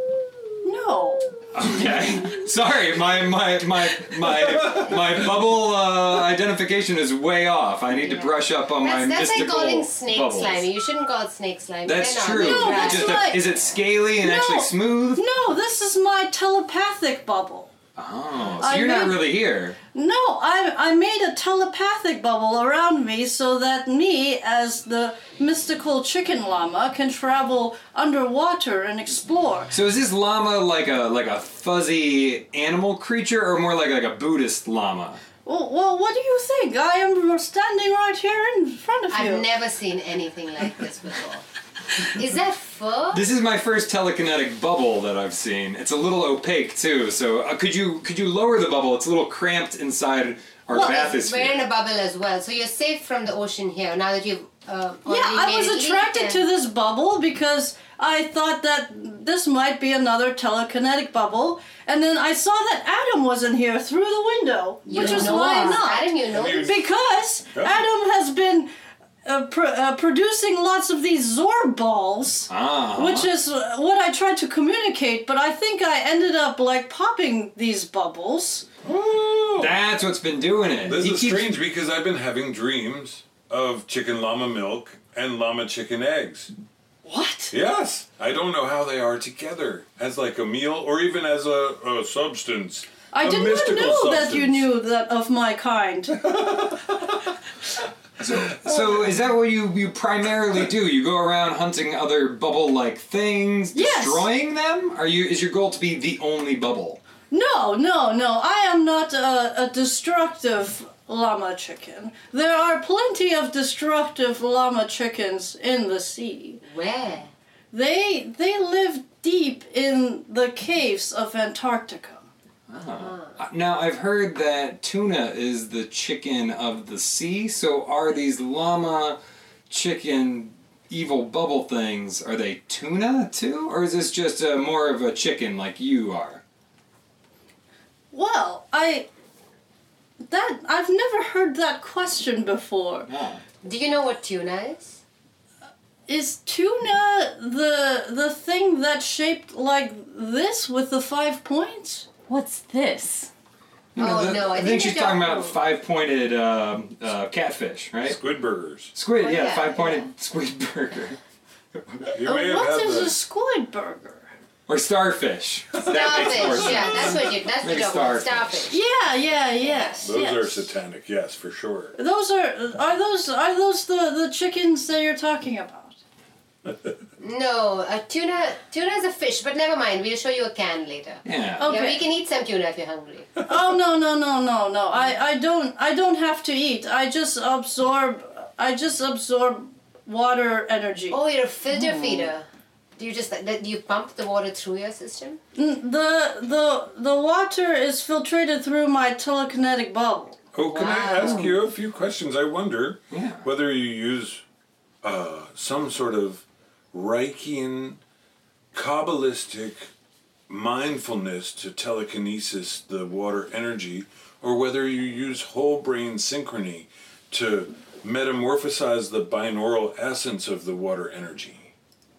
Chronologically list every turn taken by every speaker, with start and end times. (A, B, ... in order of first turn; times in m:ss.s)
0:00.6-0:01.3 A
0:01.5-0:10.7 B
0:08.0-0:13.8 C
0:11.8-0:15.2 B
0:12.3-0:13.5 A
0:14.2-0:17.7 A
0:18.0-0:19.8 B
0:18.6-0:19.3 A
0:19.9-0:29.7 A
0:29.7-0:35.2 B
0:35.4-0:39.5 A
0:39.1-0:41.4 C
0:42.0-0:43.3 C
0:43.1-0:51.6 B
0:50.7-0:56.4 C
0:50.7-0:51.1 A
0:55.1-1:08.7 A
1:04.8-1:06.8 C
1:04.9-1:05.4 D
1:05.0-1:05.8 E
1:06.3-1:06.8 D
1:07.5-1:07.8 D
1:09.2-1:18.6 A
1:12.5-1:13.3 B
1:18.8-1:19.8 D
1:19.6-1:21.5 B
1:20.8-1:26.5 D
1:27.0-1:27.5 A
1:27.5-1:34.7 D
1:33.1-1:36.4 A
1:38.2-1:47.0 B
1:43.7-1:44.2 A
1:47.3-1:56.6 A
1:56.6-1:57.3 C
1:57.7-2:02.3 A
2:02.7-2:09.2 B
2:02.9-2:03.4 C
2:09.7-2:16.4 B
2:18.1-2:19.1 A
2:20.2-2:23.1 A
2:23.1-2:23.4 B
2:23.6-2:25.0 C
2:26.1-2:32.1 A
2:32.3-2:33.3 E
2:33.9-2:38.2 B
2:34.0-2:35.6 C
2:38.0-2:38.9 D
2:38.9-2:41.2 B
2:39.2-2:40.1 C
2:41.7-2:42.2 B
2:42.1-2:43.2 D
2:42.2-2:44.3 A
2:44.7-2:48.7 B
2:45.8-2:48.8 C
2:45.9-2:46.8 D
2:48.7-2:50.6 A
2:49.6-2:50.1 C
2:50.0-2:52.0 D
2:52.0-2:56.0 A
2:57.2-3:03.4 C
3:01.2-3:01.7 B
3:01.6-3:02.1 A
3:03.4-3:11.2 A
3:11.1-3:15.4 C
3:11.7-3:12.3 E
3:15.5-3:20.5 A
3:20.5-3:24.4 D
3:20.6-3:21.5 C
3:23.1-3:23.4 B
3:25.0-3:28.0 D
3:28.7-3:29.9 D
3:30.5-3:41.7 D